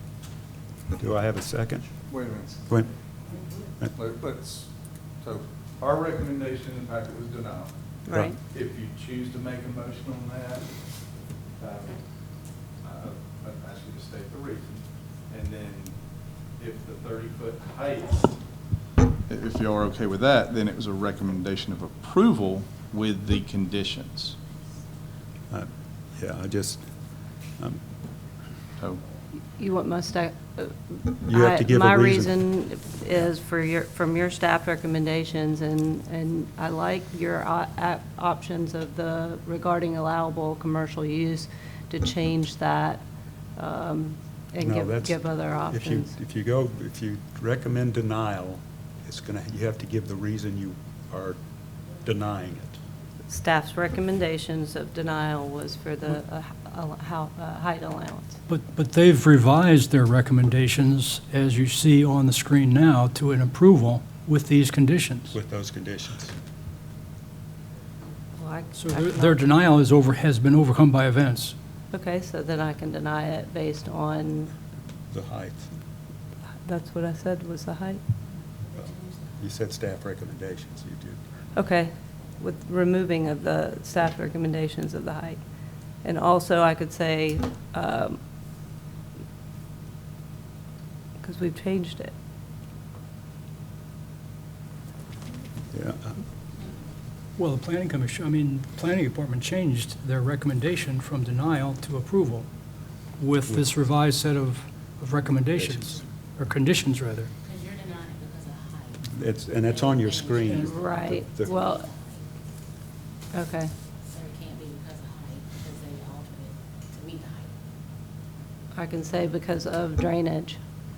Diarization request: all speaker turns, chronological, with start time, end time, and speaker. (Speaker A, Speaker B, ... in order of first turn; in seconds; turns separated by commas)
Speaker A: 1.0-1.9, Speaker B: 2.0-2.6, Speaker B: 3.9-18.5, Speaker C: 8.1-8.4, Speaker A: 8.1-8.4, Speaker B: 19.3-24.4, Speaker A: 25.5-26.9, Speaker C: 29.6-43.0, Speaker A: 31.3-32.3, Speaker C: 43.5-46.1, Speaker A: 44.6-51.4, Speaker A: 52.0-52.8, Speaker C: 53.3-58.4, Speaker D: 58.5-65.3, Speaker A: 65.3-66.3, Speaker C: 68.4-69.4, Speaker D: 68.8-71.5, Speaker C: 71.9-74.5, Speaker A: 75.1-75.7, Speaker C: 76.7-78.0, Speaker A: 78.8-81.2, Speaker C: 81.5-85.4, Speaker C: 86.0-88.2, Speaker C: 91.2-92.1, Speaker A: 95.7-96.1, Speaker D: 97.4-102.5, Speaker D: 103.2-107.3, Speaker A: 105.5-106.0, Speaker E: 107.5-108.8, Speaker A: 109.1-111.5, Speaker E: 109.9-110.7, Speaker D: 110.5-110.8, Speaker C: 110.6-111.8, Speaker E: 111.5-112.0, Speaker C: 113.3-113.7, Speaker E: 114.1-117.4, Speaker C: 118.8-120.6